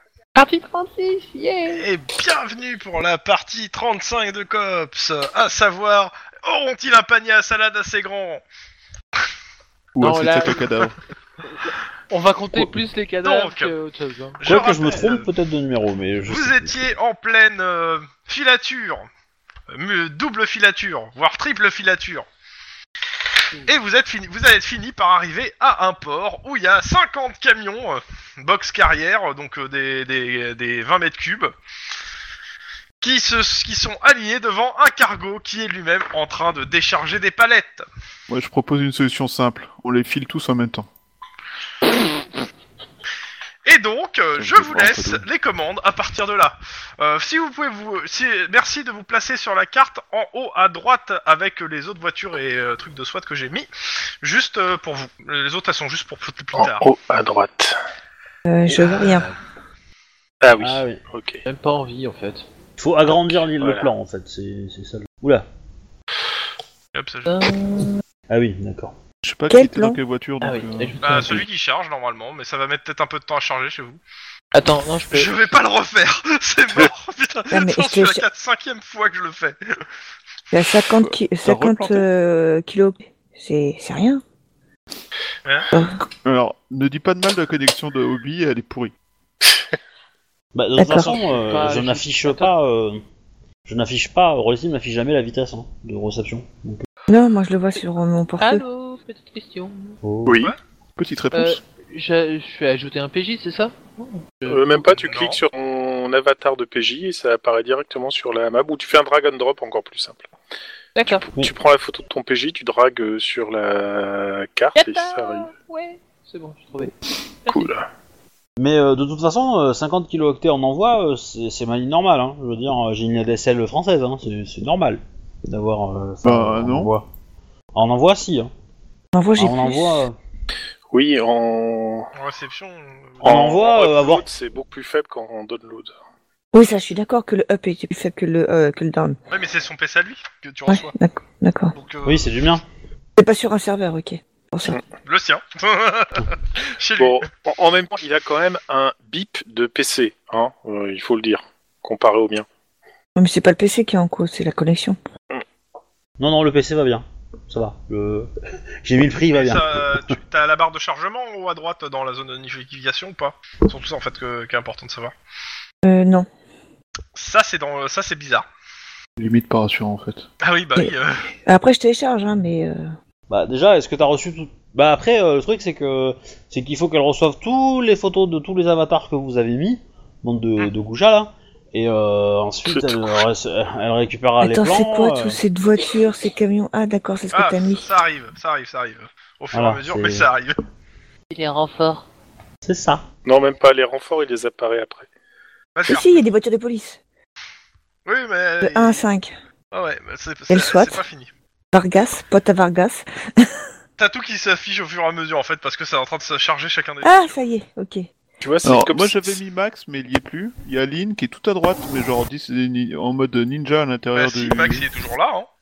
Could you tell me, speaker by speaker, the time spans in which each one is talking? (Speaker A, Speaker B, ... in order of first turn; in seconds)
Speaker A: 0.3-1.9, 10.0-10.6, 12.1-14.4, 61.4-62.5, 67.2-68.0, 70.4-71.4, 74.5-75.5, 90.9-92.5, 98.4-100.0, 101.3-104.7, 110.9-111.3, 114.8-116.9, 117.4-117.7, 191.3-192.1
Speaker B: 1.7-8.4, 13.2-13.7, 14.4-15.3, 16.2-19.1, 19.7-22.2, 23.6-31.5, 33.0-37.9, 43.6-53.7, 54.2-56.9, 66.9-67.4, 71.0-74.0, 75.1-79.8, 85.4-85.7, 105.0-105.4, 132.1-133.4, 139.3-140.9, 141.7-142.5, 145.1-147.3, 159.3-165.1, 167.2-168.4, 170.4-171.3, 187.3-190.6, 195.7-196.2, 198.1-199.0, 199.7-201.3, 204.0-207.4, 214.1-215.5
Speaker C: 9.9-10.9, 38.3-40.9, 44.4-45.2, 69.2-71.0, 81.0-82.0, 86.2-88.9, 101.0-101.6, 126.2-126.9, 169.2-170.2, 208.7-214.8
Speaker D: 14.4-16.7, 60.6-61.0, 62.8-65.5, 68.3-68.9, 90.5-93.0, 93.7-96.8, 100.0-100.4, 118.6-127.1, 127.7-128.5, 129.4-130.2, 133.2-134.2, 142.0-142.6, 156.2-158.3, 158.8-159.8, 173.3-185.4, 189.5-190.3, 192.6-193.0
Speaker E: 56.6-57.8, 60.4-61.4, 63.1-63.9, 100.2-100.5, 104.5-110.2, 111.0-115.5, 117.5-117.9, 130.9-132.1, 133.2-135.9, 147.0-152.4, 182.7-183.3, 193.2-195.1, 208.4-209.4
Speaker F: 58.5-59.3, 69.5-70.0, 77.5-78.2, 80.5-84.2, 85.7-86.0, 90.8-91.1, 97.1-98.6, 129.1-130.0, 136.5-139.2, 140.7-141.7, 143.2-144.8, 153.2-155.0, 165.8-166.3, 171.4-172.9, 184.4-187.9, 195.8-197.0, 198.6-199.3, 200.5-201.0, 201.7-203.5, 207.0-208.1